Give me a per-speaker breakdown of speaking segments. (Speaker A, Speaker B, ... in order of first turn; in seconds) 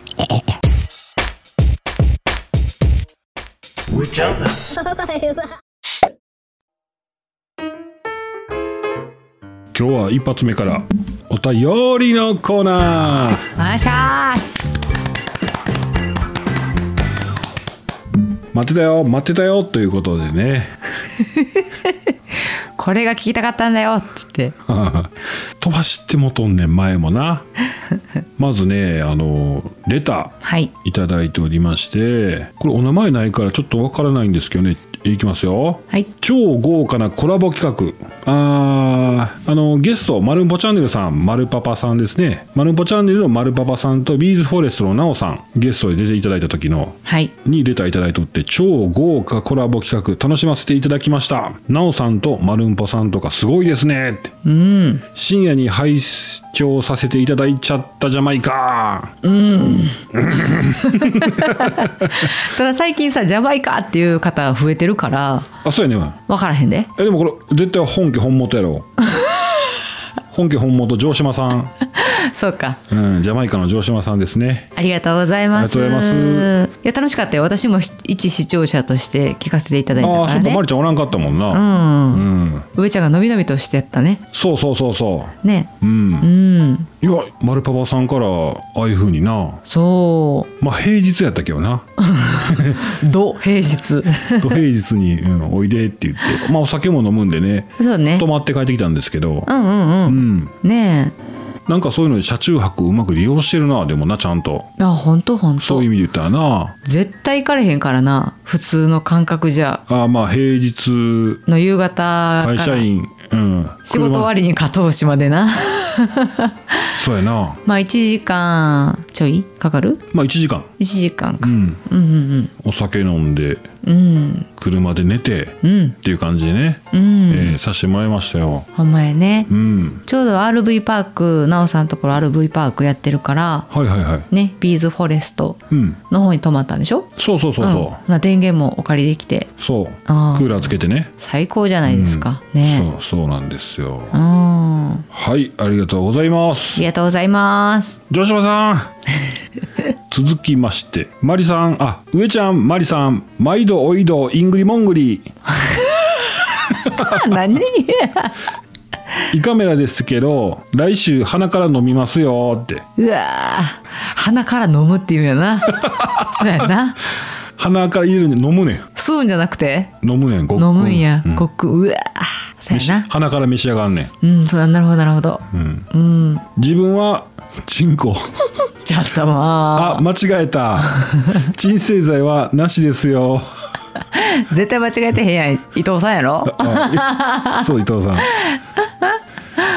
Speaker A: 4.2-5.4, 13.6-14.7, 21.4-21.9, 22.8-24.6, 30.4-30.7, 47.0-47.3, 54.4-55.0, 59.2-65.5, 66.3-66.9, 69.1-69.8, 71.9-72.8, 74.8-80.6, 81.5-84.2, 85.4-86.9, 89.7-90.5, 92.0-94.6, 97.8-98.2, 99.5-101.2, 104.8-105.9, 106.8-109.8, 111.5-112.9, 113.9-116.9, 117.7-120.0, 120.8-122.5, 123.8-124.5, 125.6-126.0, 126.9-127.6, 128.8-129.5, 130.1-133.7, 134.3-139.5, 140.1-140.7, 141.2-142.9, 144.1-145.1, 146.8-148.0, 155.5-158.3, 163.0-167.0, 168.9-170.0, 170.6-173.1, 174.2-176.4, 178.8-180.1, 181.0-181.4, 184.1-187.7, 188.4-189.1
Speaker B: 9.7-13.5, 18.5-20.8, 24.7-27.5, 28.4-54.3, 55.1-59.1, 60.1-62.3, 65.6-66.2, 67.0-68.9, 70.3-71.7, 72.9-74.7, 75.5-76.6, 80.0-82.7, 84.3-86.3, 87.0-89.6, 90.6-93.0, 94.3-99.5, 100.1-100.5, 101.7-104.7, 105.6-106.8, 109.9-111.4, 112.4-114.3, 116.9-117.6, 120.1-120.7, 121.4-121.8, 122.6-123.7, 124.6-128.7, 129.5-130.0, 133.7-134.3, 135.7-136.0, 137.2-138.0, 139.6-141.1, 141.9-144.2, 145.1-146.8, 148.1-148.9, 150.1-155.3, 156.9-157.2, 159.3-162.9, 165.8-166.5, 167.6-168.9, 170.0-171.5, 172.7-174.1, 175.5-175.9, 176.6-178.5, 179.8-183.5, 186.5-188.3